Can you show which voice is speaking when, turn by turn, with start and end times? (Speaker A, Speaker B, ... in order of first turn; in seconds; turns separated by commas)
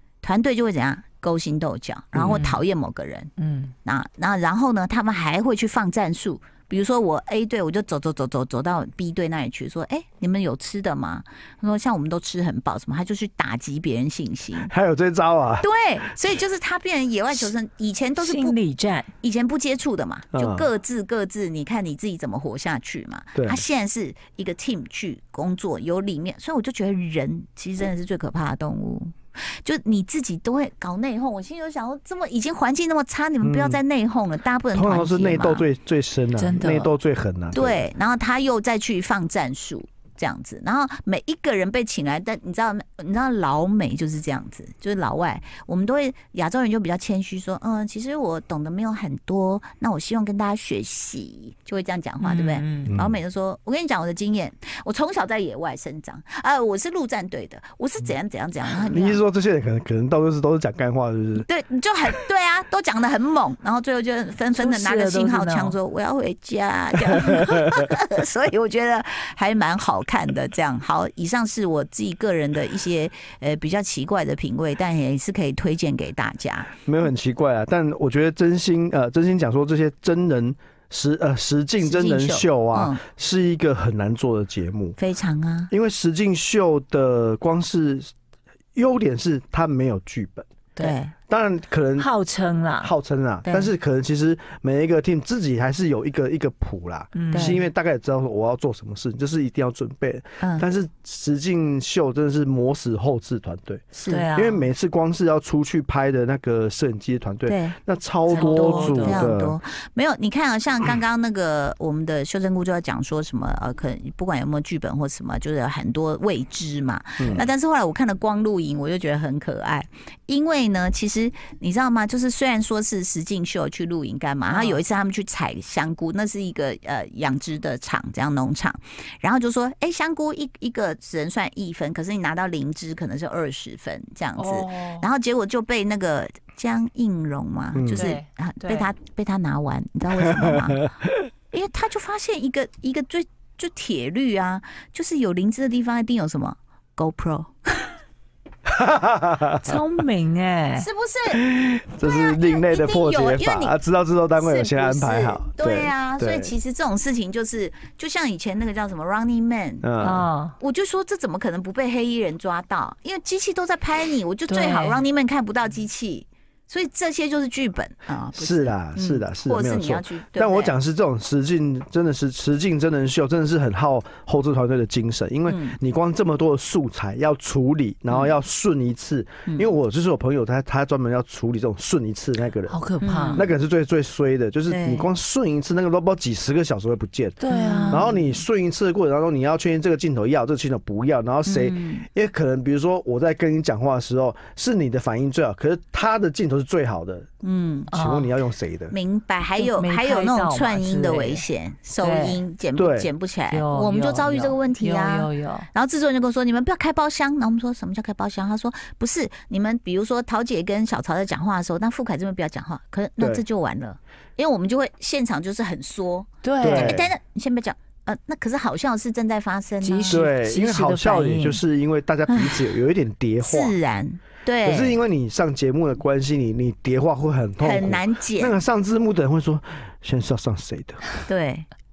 Speaker A: 0.2-3.3, Speaker B: 2.1-2.5, Speaker C: 2.3-2.6, Speaker C: 3.4-3.7, Speaker A: 3.9-14.7, Speaker B: 14.6-15.7, Speaker A: 15.6-18.6, Speaker C: 18.2-19.1, Speaker A: 19.2-35.7, Speaker B: 20.3-20.7, Speaker B: 23.4-23.6, Speaker B: 33.4-33.8, Speaker B: 34.7-37.9, Speaker C: 36.4-36.9, Speaker A: 37.5-59.2, Speaker C: 52.2-52.9, Speaker B: 52.9-53.2, Speaker B: 58.8-61.5, Speaker A: 61.4-76.7, Speaker C: 64.5-65.8, Speaker B: 76.9-85.0, Speaker A: 81.8-83.0, Speaker A: 85.0-85.7, Speaker B: 85.7-88.1, Speaker B: 88.8-90.5, Speaker A: 90.8-91.1, Speaker B: 91.3-92.1, Speaker C: 92.0-92.9, Speaker B: 92.8-109.6, Speaker A: 93.5-93.7, Speaker C: 97.1-97.6, Speaker A: 97.3-97.6, Speaker A: 100.4-100.7, Speaker A: 103.9-104.3, Speaker C: 104.1-104.7, Speaker A: 107.5-107.8, Speaker C: 108.3-109.3, Speaker A: 108.3-140.8, Speaker B: 117.2-117.5, Speaker C: 124.5-124.8, Speaker C: 134.3-135.1, Speaker B: 137.8-138.1, Speaker C: 138.0-138.9, Speaker B: 140.3-140.6, Speaker A: 141.5-147.9, Speaker B: 148.7-149.8, Speaker C: 149.6-150.9, Speaker A: 150.8-151.4, Speaker B: 151.3-156.5, Speaker A: 152.0-153.8, Speaker A: 154.4-159.9, Speaker B: 159.8-160.3, Speaker C: 160.0-160.6, Speaker A: 160.6-170.7, Speaker C: 164.5-165.0, Speaker B: 168.3-182.8, Speaker A: 175.5-175.8, Speaker A: 178.1-178.4, Speaker A: 179.5-179.7, Speaker C: 182.7-183.4, Speaker A: 183.0-183.5, Speaker B: 183.3-187.4, Speaker A: 184.7-185.1, Speaker C: 187.4-188.1, Speaker A: 187.5-188.3, Speaker B: 187.9-197.3, Speaker A: 191.5-192.1, Speaker A: 197.4-197.9, Speaker C: 197.9-198.3, Speaker B: 197.9-198.9, Speaker A: 198.9-220.2, Speaker C: 199.6-201.4, Speaker C: 202.0-202.4, Speaker B: 202.8-203.1, Speaker C: 203.5-205.7, Speaker C: 216.4-217.0, Speaker B: 216.6-217.1, Speaker C: 219.8-221.6, Speaker B: 220.1-223.8, Speaker A: 222.3-222.7, Speaker A: 223.4-225.0, Speaker B: 224.6-231.1, Speaker A: 227.6-228.6, Speaker A: 231.3-231.7